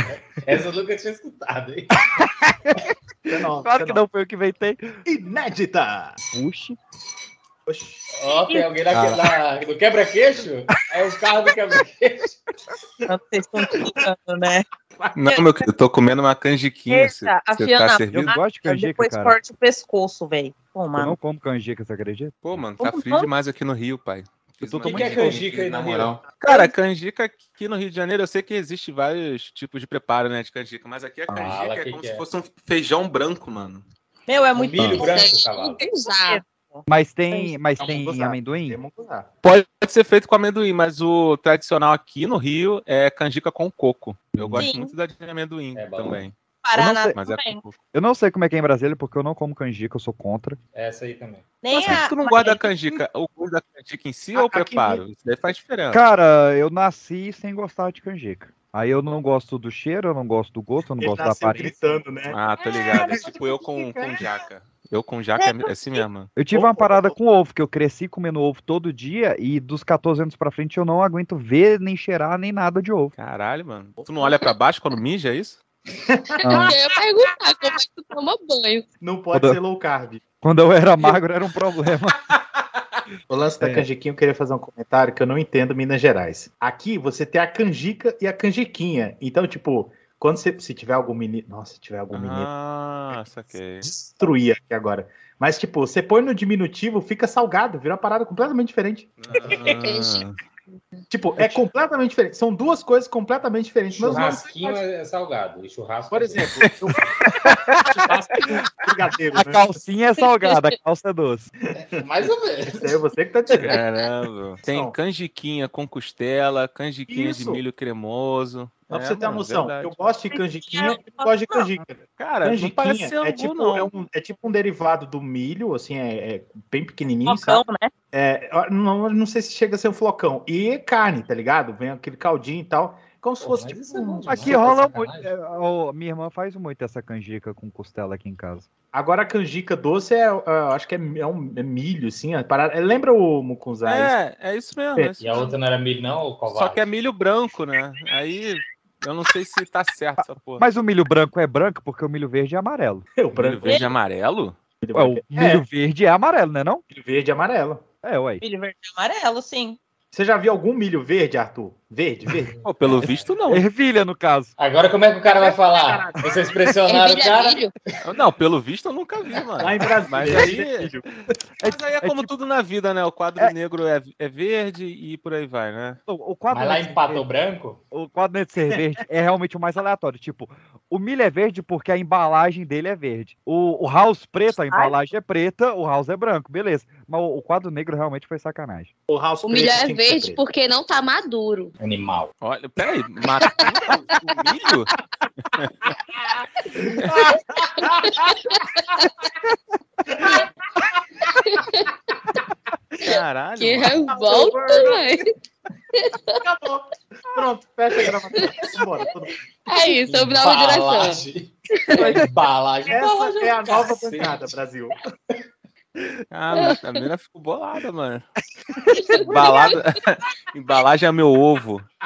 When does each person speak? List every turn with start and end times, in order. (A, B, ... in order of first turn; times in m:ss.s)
0:00.4-0:01.9 A
0:03.3-0:04.0 B
0:03.6-0:05.0 C
0:05.1-0:06.2 B
0:06.3-0:06.8 C
0:07.7-0:08.1 B
0:08.1-0:12.4 A
0:08.9-0:09.2 C
0:13.1-0:14.7 D
0:15.2-0:18.3 E
0:16.9-0:21.2 D
0:18.1-0:19.4 C
0:21.0-0:22.6 C
0:22.4-0:33.8 E
0:22.8-0:23.3 D
0:24.6-0:25.5 C
0:24.8-0:26.2 A
0:31.3-0:32.2 A
0:34.3-0:35.3 D
0:34.5-0:35.8 A
0:35.0-0:36.4 F
0:36.2-0:37.5 D
0:36.9-0:38.8 C
0:37.8-0:39.3 B
0:39.4-0:46.3 E
0:44.4-0:44.6 C
0:44.6-0:45.0 D
0:45.8-0:46.2 A
0:46.6-0:47.6 D
0:46.8-0:47.2 C
0:47.2-0:47.8 E
0:47.9-0:50.6 C
0:50.7-0:51.4 A
0:51.6-0:52.7 D
0:51.8-0:56.0 E
0:54.3-0:55.0 B
0:55.9-1:01.8 C
1:01.0-1:02.4 B
1:02.3-1:06.3 E
1:05.4-1:06.0 D
1:06.4-1:13.1 C
1:06.5-1:07.2 B
1:13.2-1:15.6 E
1:16.1-1:16.7 B
1:16.4-1:18.9 F
1:19.0-1:20.2 B
1:20.4-1:22.2 C
1:23.3-1:32.5 B
1:23.6-1:23.9 C
1:32.1-1:33.9 E
1:33.8-1:39.1 B
1:39.2-1:40.4 E
1:39.5-1:39.8 A
1:39.9-1:40.2 F
1:41.1-1:44.8 B
1:43.9-1:46.5 A
1:46.1-1:47.0 B
1:48.1-1:49.7 B
1:49.4-1:51.5 C
1:51.9-1:52.9 A
1:52.7-1:53.8 B
1:53.5-2:00.0 E
1:54.7-1:55.0 B
1:57.1-1:57.6 B
1:58.9-2:14.7 B
2:00.3-2:01.6 D
2:02.2-2:03.9 E
2:07.3-2:07.9 D
2:13.4-2:15.3 A
2:14.3-2:18.7 C
2:18.9-2:24.1 B
2:23.8-2:25.5 E
2:25.2-2:26.8 A
2:26.5-2:30.6 E
2:30.2-2:33.1 C
2:33.2-2:33.9 B
2:33.4-2:34.6 E
2:33.7-2:33.9 D
2:34.8-2:35.6 B
2:35.0-2:36.8 C
2:36.9-2:37.8 B
2:38.0-2:38.4 C
2:38.4-2:39.8 D
2:40.1-2:42.5 B
2:42.4-2:43.3 A
2:42.6-2:43.6 E
2:43.0-2:44.5 C
2:44.6-2:47.6 A
2:45.3-2:46.2 B
2:46.9-2:47.7 F
2:48.0-2:50.9 E
2:49.6-2:51.0 B
2:51.6-2:52.3 C
2:51.6-2:56.0 E
2:56.1-2:57.2 C
2:56.5-2:57.8 A
2:57.9-3:08.9 C
2:58.7-2:59.0 B
3:09.1-3:10.4 B
3:09.5-3:11.7 F
3:11.8-3:12.3 A
3:12.4-3:14.9 E
3:15.6-3:15.9 E
3:16.8-3:18.4 B
3:21.5-3:21.9 F
3:23.0-3:24.0 E
3:23.1-3:25.2 F
3:24.1-3:25.0 B
3:26.0-3:26.4 F
3:26.4-3:29.3 B
3:29.7-3:31.2 F
3:29.8-3:33.1 A
3:31.9-3:32.2 F
3:32.9-3:34.9 B
3:32.9-3:33.9 D
3:34.0-3:34.4 A
3:36.3-3:38.3 E
3:39.0-3:39.9 F
3:39.2-3:41.8 E